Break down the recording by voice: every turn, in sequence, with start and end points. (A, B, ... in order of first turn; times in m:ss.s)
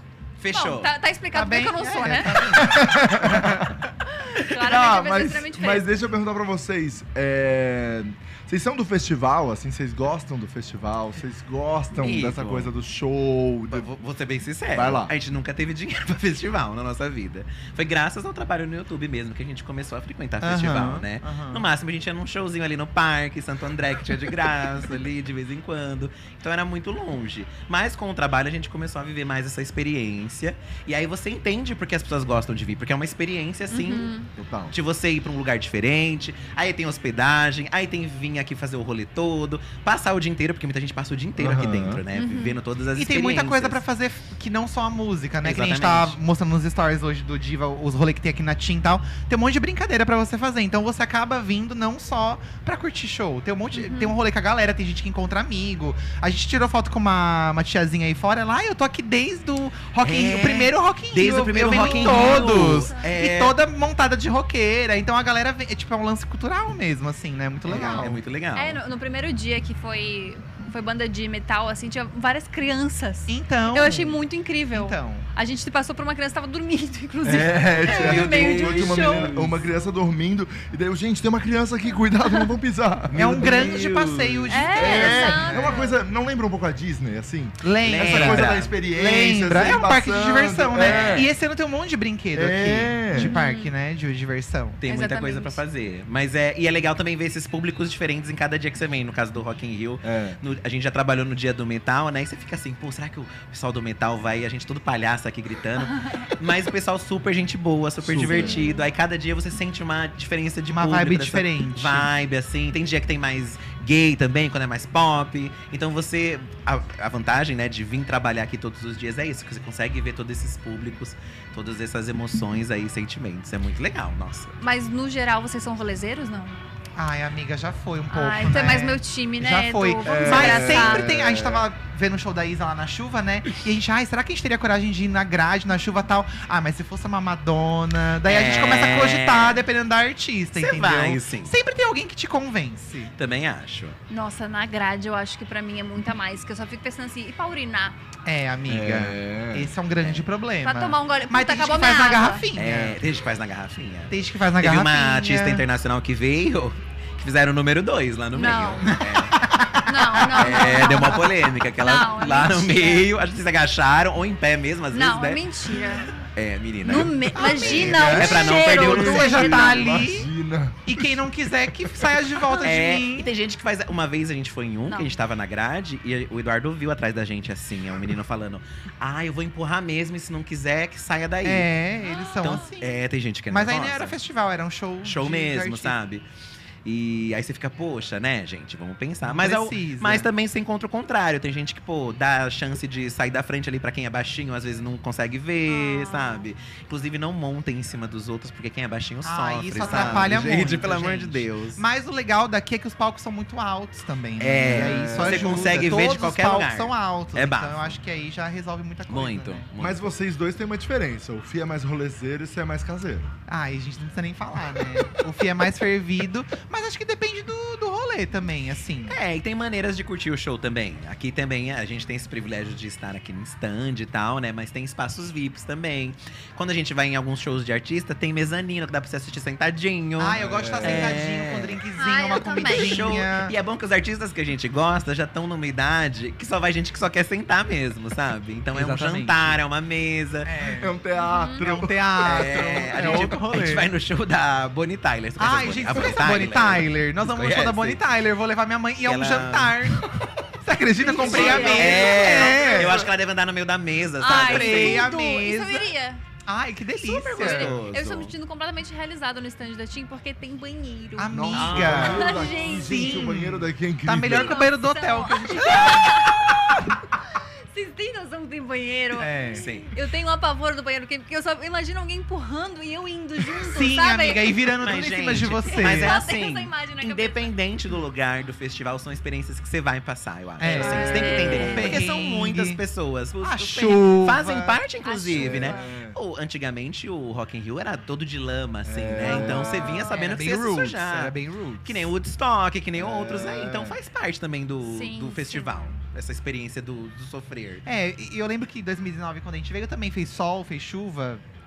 0:00.4-0:00.9 A
0:00.5-0:02.6 B
0:01.3-0:03.8 C
0:02.5-0:03.7 D
0:04.1-0:06.0 B
0:04.5-0:13.9 D
0:12.0-0:12.7 A
0:13.7-0:34.1 A
0:14.7-0:15.1 D
0:20.4-0:21.7 C
0:33.7-0:34.3 B
0:34.4-0:34.7 D
0:34.7-0:43.8 A
0:41.4-0:42.0 D
0:42.1-0:42.6 B
0:42.9-1:08.2 C
0:45.4-0:46.2 A
0:53.7-0:54.1 B
1:00.0-1:03.6 A
1:01.7-1:03.0 B
1:07.6-1:08.8 A
1:08.5-1:19.3 B
1:13.3-1:15.3 C
1:17.2-1:24.0 D
1:17.8-1:19.7 A
1:23.1-1:24.5 A
1:23.1-1:25.7 C
1:24.5-1:26.0 B
1:24.7-1:31.3 D
1:27.6-1:34.8 C
1:27.8-1:28.8 A
1:30.8-1:31.3 A
1:32.3-1:33.3 D
1:33.1-1:33.7 B
1:34.8-2:04.6 A
1:34.8-1:35.6 B
1:40.0-1:40.4 D
1:45.8-1:46.3 B
1:48.0-1:48.6 D
1:48.3-1:48.8 B
1:50.7-1:52.1 C
2:04.6-2:06.6 B
2:07.0-2:23.1 C
2:08.1-2:11.1 B
2:10.0-2:11.6 D
2:18.2-2:19.6 A
2:20.5-2:21.5 A
2:23.2-2:24.0 A
2:24.1-2:28.0 B
2:28.2-2:33.0 C
2:28.7-2:29.7 D
2:30.0-2:30.2 A
2:30.6-2:32.5 B
2:32.6-2:39.4 A
2:34.1-2:35.6 C
2:38.3-2:39.0 B
2:38.9-2:41.0 C
2:39.8-2:43.1 B
2:40.3-2:45.4 A
2:44.9-2:46.2 B
2:46.3-2:49.7 A
2:46.8-2:49.8 B
2:47.3-2:50.3 C
2:47.4-2:51.2 D
2:50.8-2:53.3 C
2:51.8-2:52.2 D
2:52.6-3:01.7 A
2:54.9-2:55.2 B
3:01.4-3:06.0 C
3:02.0-3:02.7 B
3:02.4-3:04.2 A
3:05.0-3:06.2 A
3:06.8-3:21.8 A
3:09.2-3:10.3 C
3:15.7-3:16.4 B
3:19.2-3:29.7 C
3:19.8-3:20.7 D
3:24.4-3:28.0 A
3:24.6-3:25.9 D
3:29.1-3:30.1 A
3:29.8-3:33.3 D
3:33.5-3:39.2 C
3:39.1-3:51.8 A
3:50.2-3:53.6 C
3:50.3-3:51.3 D
3:52.0-3:53.2 B
3:52.5-4:00.5 A
3:58.7-3:59.6 C
4:00.4-4:01.0 C
4:00.8-4:03.3 D
4:01.2-4:01.7 B
4:01.6-4:03.9 C
4:02.2-4:08.0 A
4:05.4-4:10.1 C
4:09.0-4:10.0 A
4:10.6-4:13.0 C
4:11.0-4:12.4 B
4:11.1-4:15.1 A
4:11.6-4:13.1 D
4:14.2-4:16.2 B
4:14.2-4:15.9 C
4:16.4-4:17.8 C
4:17.0-4:18.3 A
4:17.4-4:23.2 B
4:21.2-4:26.7 C
4:21.3-4:24.6 D
4:21.5-4:22.4 A
4:24.3-4:26.8 B
4:27.3-4:34.7 B
4:29.2-4:29.7 C
4:29.5-4:29.9 A
4:33.6-4:36.2 C
4:34.8-4:57.8 A
4:35.6-4:37.6 B
4:40.6-4:42.8 C
4:40.7-4:41.9 D
4:40.7-4:42.0 B
4:43.4-4:44.8 C
4:45.0-4:45.9 B
4:45.3-4:46.2 D
4:48.8-4:50.1 D
4:49.2-4:50.3 B
4:50.1-4:52.1 C
4:53.0-4:54.0 D
4:54.8-4:55.8 B
4:57.8-5:01.4 C